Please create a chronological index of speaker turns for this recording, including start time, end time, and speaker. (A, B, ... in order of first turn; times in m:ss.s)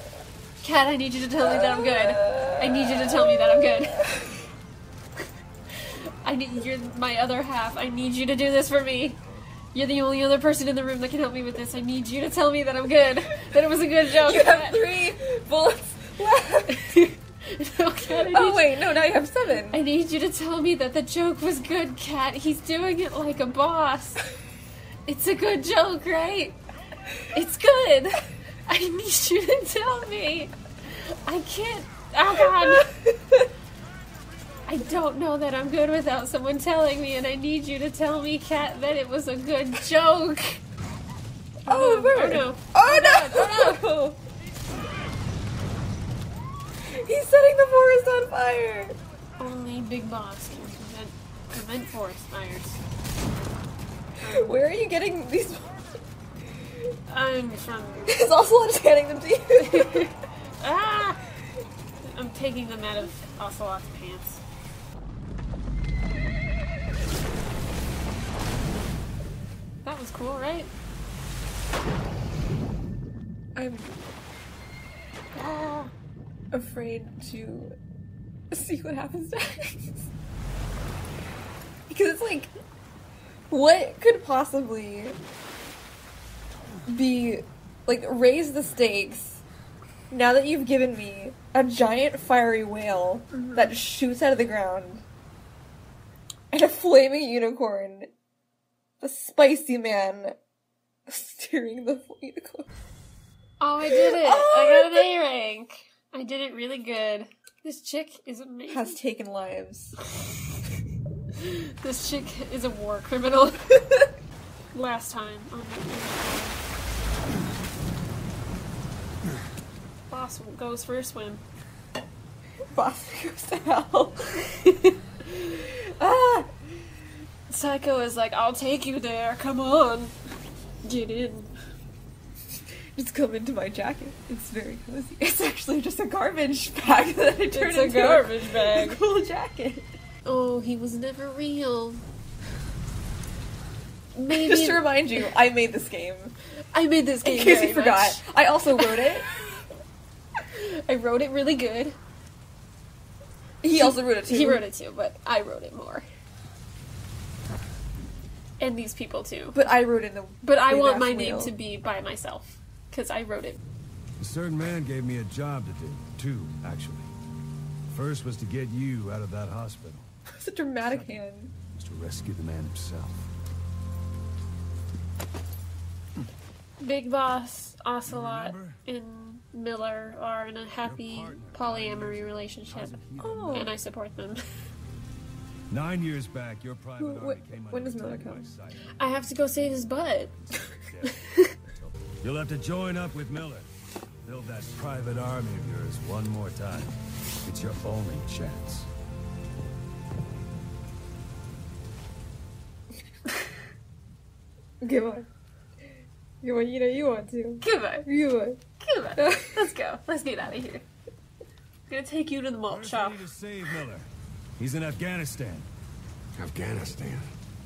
0:00.6-0:04.2 A
0:01.5-0:03.6 B
0:06.2-0:09.2 A
0:09.7-0:14.9 A
0:14.2-0:16.9 B
0:16.7-0:24.2 A
0:18.1-0:19.8 B
0:25.0-0:26.6 A
0:27.3-0:32.9 A
0:32.4-0:33.5 B
0:34.7-0:40.6 A
0:41.6-0:43.8 A
0:41.7-0:44.2 B
0:46.8-0:49.0 B
0:49.4-0:52.8 A
0:54.2-0:54.6 A
0:54.2-0:55.8 B
0:57.1-0:58.1 A
0:58.0-1:00.1 B
0:59.6-1:01.2 A
1:02.0-1:04.4 A
1:09.8-1:10.7 A
1:13.6-1:14.0 B
1:15.3-1:15.9 A
1:16.5-1:17.7 B
1:18.5-1:20.1 B
1:21.9-1:22.5 B
1:23.5-1:25.2 B
1:26.8-1:29.4 B
1:30.1-1:35.0 B
1:33.3-1:33.7 A
1:36.5-1:38.1 B
1:39.0-1:40.4 B
1:41.1-1:42.7 B
1:43.6-1:49.0 A
1:43.9-1:45.0 B
1:48.7-1:49.9 B
1:51.3-1:53.8 A
1:54.7-1:56.6 A
2:00.1-2:01.4 A
2:02.7-2:04.4 B
2:04.4-2:04.9 A
2:05.3-2:06.5 B
2:07.5-2:10.1 A
2:10.8-2:11.5 A
2:12.9-2:19.9 B
2:17.5-2:19.0 A
2:20.2-2:22.0 A
2:24.1-2:25.3 A
2:24.3-2:26.3 B
2:26.7-2:28.2 A
2:27.2-2:29.3 B
2:28.8-2:29.2 A
2:30.5-2:32.0 A
2:33.6-2:34.6 B
2:33.7-2:36.0 A
2:38.6-2:39.6 A
2:39.5-2:41.5 B
2:40.4-2:43.6 A
2:44.2-2:47.1 C
2:47.9-2:50.1 C
2:50.3-2:51.5 B
2:51.7-2:53.3 C
2:56.8-3:03.0 A
2:58.0-2:58.8 C
3:00.8-3:03.8 C
3:03.2-3:03.7 B
3:03.5-3:04.4 A
3:05.7-3:08.8 C
3:07.0-3:08.5 B
3:09.0-3:10.3 A
3:10.5-3:13.7 C
3:11.1-3:11.5 A
3:14.2-3:18.9 C
3:24.8-3:25.2 B
3:26.4-3:28.6 B
3:27.6-3:28.0 A
3:28.8-3:30.8 A
3:29.2-3:29.7 B
3:31.9-3:33.3 A
3:32.6-3:35.7 C
3:36.4-3:37.2 C